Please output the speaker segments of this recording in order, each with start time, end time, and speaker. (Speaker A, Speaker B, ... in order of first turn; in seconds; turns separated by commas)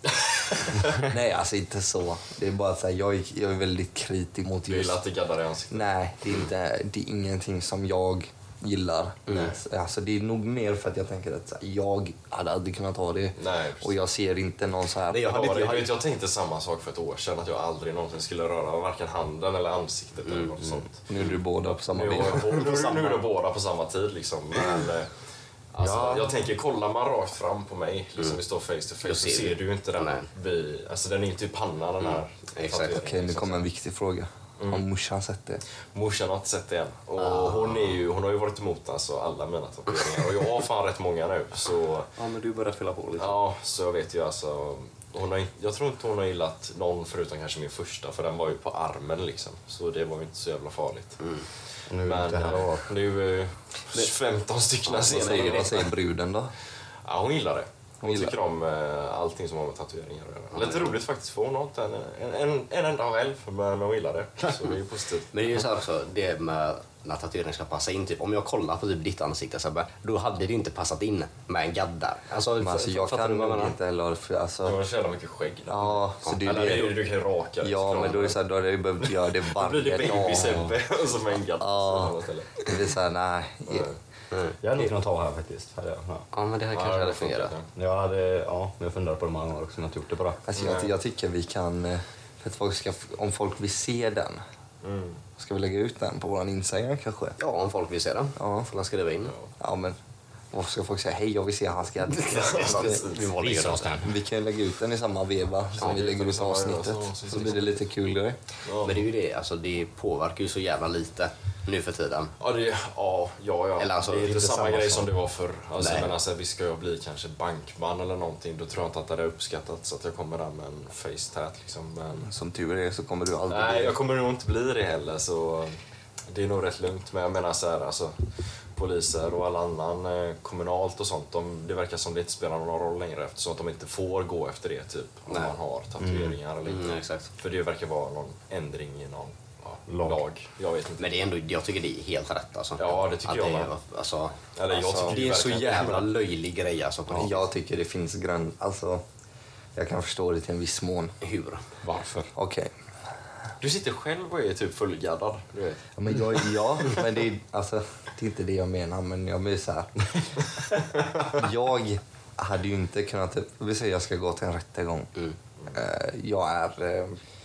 Speaker A: 0.2-0.8, Speaker B: 0.9-5.0, Speaker A: 4.7-5.9, Speaker B: 5.7-15.3, Speaker C: 9.3-9.5, Speaker A: 13.4-14.0, Speaker C: 15.1-16.0, Speaker A: 15.1-21.1, Speaker C: 20.3-20.5, Speaker B: 21.1-23.0, Speaker A: 21.9-25.1, Speaker A: 25.7-33.6, Speaker D: 25.8-26.3, Speaker C: 29.0-30.3, Speaker C: 32.0-33.0, Speaker B: 32.9-35.6, Speaker A: 34.6-34.8, Speaker A: 35.9-42.1, Speaker C: 37.2-37.9, Speaker C: 42.2-43.4, Speaker A: 43.2-51.2, Speaker C: 51.2-51.5, Speaker D: 51.9-52.9, Speaker A: 52.0-55.9, Speaker C: 54.9-55.8, Speaker B: 55.0-56.5, Speaker A: 57.0-65.3, Speaker B: 58.0-58.3, Speaker C: 60.5-61.0, Speaker C: 65.3-73.8, Speaker B: 72.6-74.8, Speaker A: 74.6-78.4, Speaker B: 75.7-77.0, Speaker B: 77.6-80.7, Speaker A: 79.0-82.7, Speaker D: 80.3-80.8, Speaker B: 81.6-83.9, Speaker A: 83.7-84.0, Speaker D: 84.6-86.2, Speaker C: 86.3-87.5, Speaker A: 86.7-87.7, Speaker D: 87.7-90.4, Speaker B: 90.5-94.4, Speaker A: 90.5-90.9, Speaker A: 94.8-95.2, Speaker B: 95.4-97.3, Speaker C: 97.4-99.3, Speaker B: 98.4-98.7, Speaker B: 99.6-100.0, Speaker B: 100.5-103.0, Speaker C: 102.2-104.0, Speaker A: 102.3-103.3, Speaker D: 103.3-104.1, Speaker B: 104.0-108.4, Speaker A: 105.8-107.7, Speaker A: 108.6-109.1, Speaker C: 108.8-112.3, Speaker A: 112.4-122.3, Speaker C: 113.8-115.1, Speaker C: 115.8-116.1, Speaker B: 122.2-124.0, Speaker A: 123.5-125.8, Speaker A: 126.3-141.3, Speaker C: 135.3-135.5, Speaker D: 136.0-136.4, Speaker C: 136.6-137.3, Speaker D: 139.9-140.2, Speaker C: 141.0-144.4, Speaker A: 142.8-143.7, Speaker A: 144.5-146.1, Speaker B: 144.7-145.2, Speaker C: 144.9-147.4, Speaker B: 147.1-149.0, Speaker B: 149.7-151.1, Speaker C: 151.2-151.6, Speaker D: 151.8-152.3, Speaker B: 152.3-152.7, Speaker A: 153.6-155.8, Speaker B: 156.0-160.2, Speaker B: 161.2-165.1, Speaker B: 165.7-167.2